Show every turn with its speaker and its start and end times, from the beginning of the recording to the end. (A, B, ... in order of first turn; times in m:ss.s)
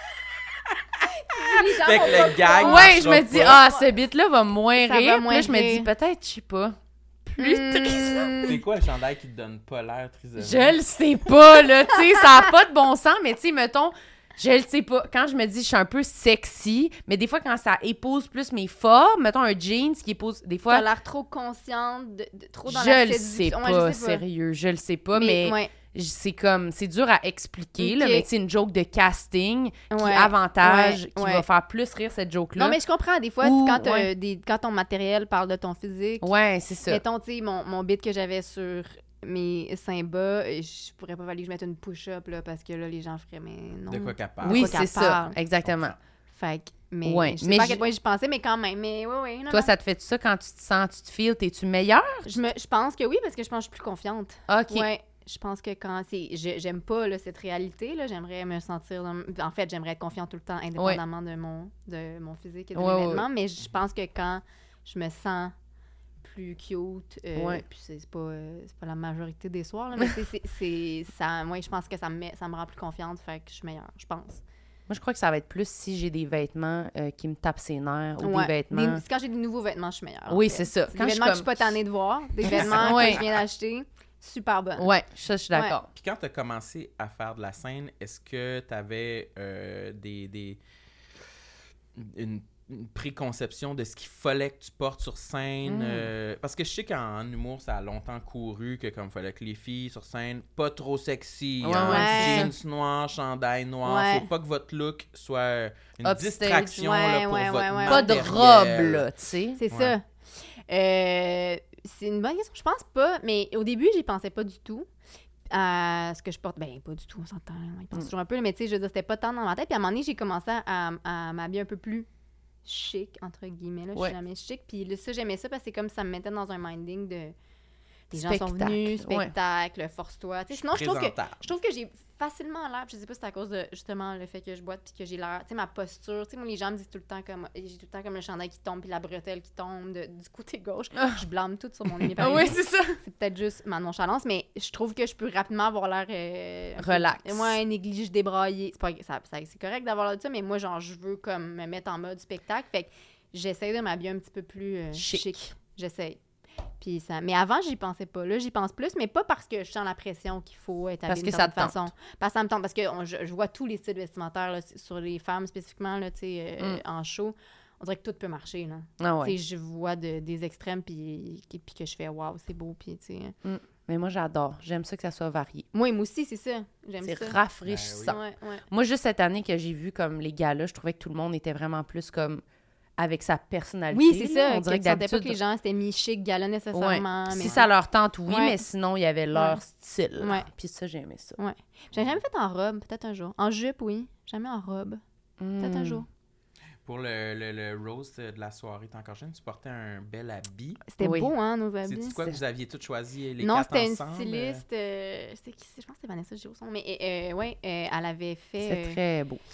0:01.1-0:03.9 A
0:01.7-0:03.6 B
0:02.6-0:08.6 C
0:04.8-0:05.9 A
0:07.4-0:08.6 A
0:08.4-0:10.8 B
0:10.4-0:20.9 C
0:20.7-0:24.2 A
0:22.7-0:32.8 C
0:25.1-0:25.7 A
0:27.8-0:28.3 A
0:29.9-0:31.4 A
0:32.6-0:36.3 A
0:33.4-0:34.1 C
0:36.2-0:37.0 C
0:36.9-0:45.4 A
0:43.9-0:44.9 B
0:44.4-0:45.9 C
0:45.6-0:46.0 B
0:46.3-0:49.7 A
0:47.0-0:47.8 C
0:49.5-0:52.3 C
0:52.2-1:05.5 A
0:54.5-0:54.9 C
1:00.8-1:01.0 C
1:02.8-1:03.2 C
1:06.2-1:14.4 A
1:07.4-1:07.6 C
1:14.9-1:19.0 C
1:18.2-1:24.9 A
1:20.3-1:21.8 C
1:22.4-1:23.2 C
1:22.5-1:23.2 B
1:24.8-1:25.9 C
1:25.9-1:30.6 B
1:32.0-1:49.1 B
1:35.7-1:36.1 C
1:41.6-1:42.5 C
1:41.9-1:42.5 A
1:43.8-1:44.3 A
1:46.0-1:46.7 C
1:46.5-1:48.4 A
1:47.9-1:49.6 C
1:49.6-1:50.1 A
1:50.7-1:54.9 A
1:55.5-2:02.1 A
2:02.6-2:07.4 A
2:08.1-2:36.2 A
2:08.2-2:09.3 C
2:10.5-2:11.5 B
2:22.2-2:23.0 C
2:26.8-2:27.6 C
2:35.0-2:35.3 C
2:36.8-2:53.3 A
2:41.1-2:41.9 C
2:49.0-2:49.4 C
2:53.4-2:55.7 C
2:55.7-2:57.4 A
2:57.0-2:58.2 C
2:57.6-2:58.2 B
2:58.0-2:58.7 A
2:58.7-3:02.4 C
3:03.0-3:05.4 C
3:03.9-3:07.7 A
3:06.7-3:11.4 C
3:08.3-3:08.6 A
3:09.3-3:09.6 A
3:10.2-3:10.5 A
3:11.4-3:15.0 A
3:15.4-3:16.0 C
3:15.6-3:16.1 A
3:16.8-3:20.8 B
3:20.9-3:22.4 A
3:21.0-3:21.3 C
3:21.8-3:24.6 B
3:23.4-3:29.0 A
3:28.6-3:29.4 C